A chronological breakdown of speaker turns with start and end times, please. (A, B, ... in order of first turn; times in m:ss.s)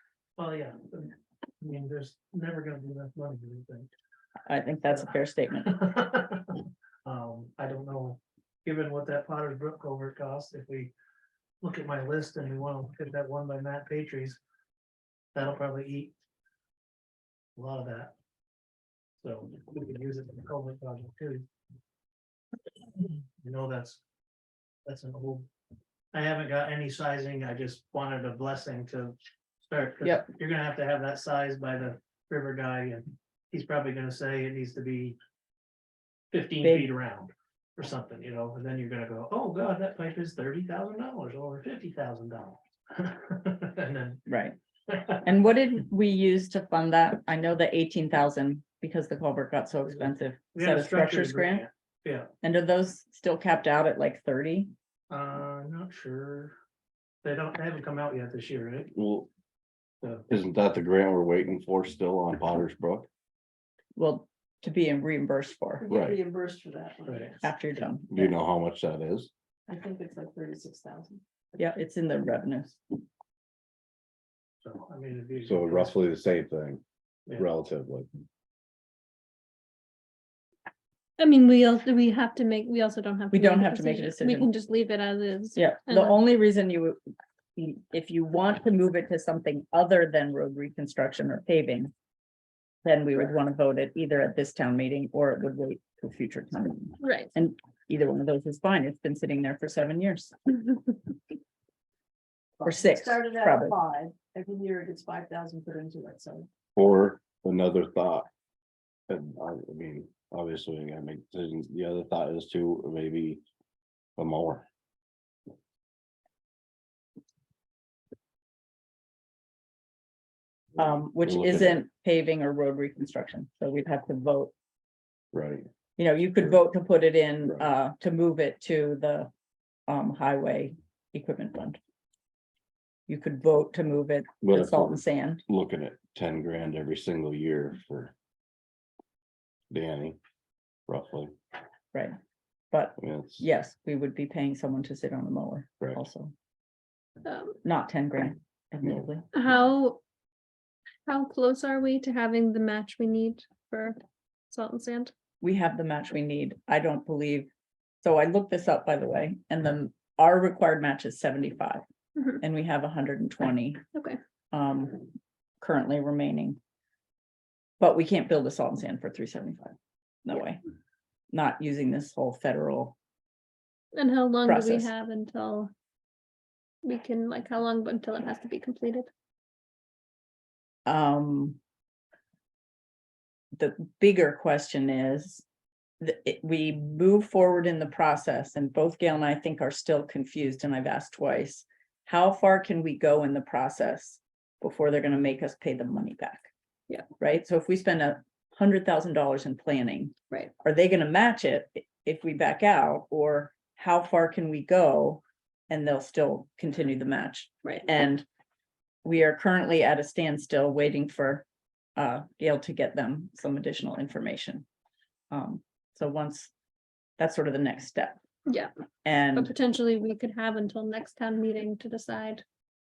0:00.4-0:03.9 A
0:04.5-0:05.8 B
0:05.6-0:10.9 A
0:11.6-0:14.4 A
0:15.3-0:16.1 A
0:17.6-0:18.1 A
0:19.2-0:21.5 A
0:23.0-0:24.0 A
0:24.8-0:25.5 A
0:26.1-0:35.2 A
0:36.3-0:44.2 A
0:36.6-0:36.9 B
0:44.3-0:44.6 B
0:44.9-0:45.2 A
0:45.2-0:51.6 B
0:50.5-0:52.3 A
0:52.4-0:54.7 B
0:55.1-0:56.6 A
0:57.2-0:58.9 A
0:59.0-0:59.3 C
1:00.0-1:00.3 A
1:00.3-1:03.1 C
1:04.0-1:05.8 B
1:05.8-1:07.5 D
1:05.9-1:06.2 C
1:07.0-1:07.3 A
1:07.4-1:08.3 B
1:08.1-1:09.3 C
1:09.7-1:11.2 D
1:11.6-1:12.8 B
1:14.6-1:15.9 A
1:15.4-1:16.8 C
1:17.3-1:18.1 C
1:21.2-1:26.2 E
1:23.3-1:24.5 B
1:25.6-1:27.0 B
1:27.6-1:31.9 B
1:32.8-1:40.4 B
1:37.0-1:37.3 E
1:42.6-1:46.5 D
1:42.6-1:43.8 B
1:46.8-1:48.3 C
1:49.1-1:53.4 C
1:54.2-1:54.6 C
2:00.8-2:04.5 B
2:01.2-2:01.8 C
2:05.3-2:05.7 C
2:06.0-2:09.3 B
2:09.9-2:11.8 B
2:13.1-2:15.4 B
2:14.4-2:18.1 C
2:19.7-2:20.2 C
2:20.9-2:21.3 C
2:22.7-2:26.3 B
2:23.0-2:23.4 C
2:27.2-2:27.6 E
2:27.6-2:29.2 B
2:29.3-2:30.0 E
2:31.0-2:34.0 E
2:34.5-2:35.1 E
2:35.4-2:37.5 B
2:38.0-2:41.8 B
2:42.2-2:42.4 E
2:42.4-2:43.8 B
2:44.5-2:46.6 B
2:47.8-2:50.6 B
2:51.3-2:52.9 B
2:53.9-2:55.7 E
2:54.4-2:54.9 B
2:56.8-2:59.1 E
3:00.8-3:01.6 B
3:03.6-3:05.4 B
3:06.0-3:16.5 B
3:17.2-3:28.2 B
3:29.0-3:31.4 B
3:32.0-3:34.6 B
3:35.3-3:36.5 B
3:37.2-3:38.2 B
3:39.0-3:39.5 B
3:39.4-3:42.4 E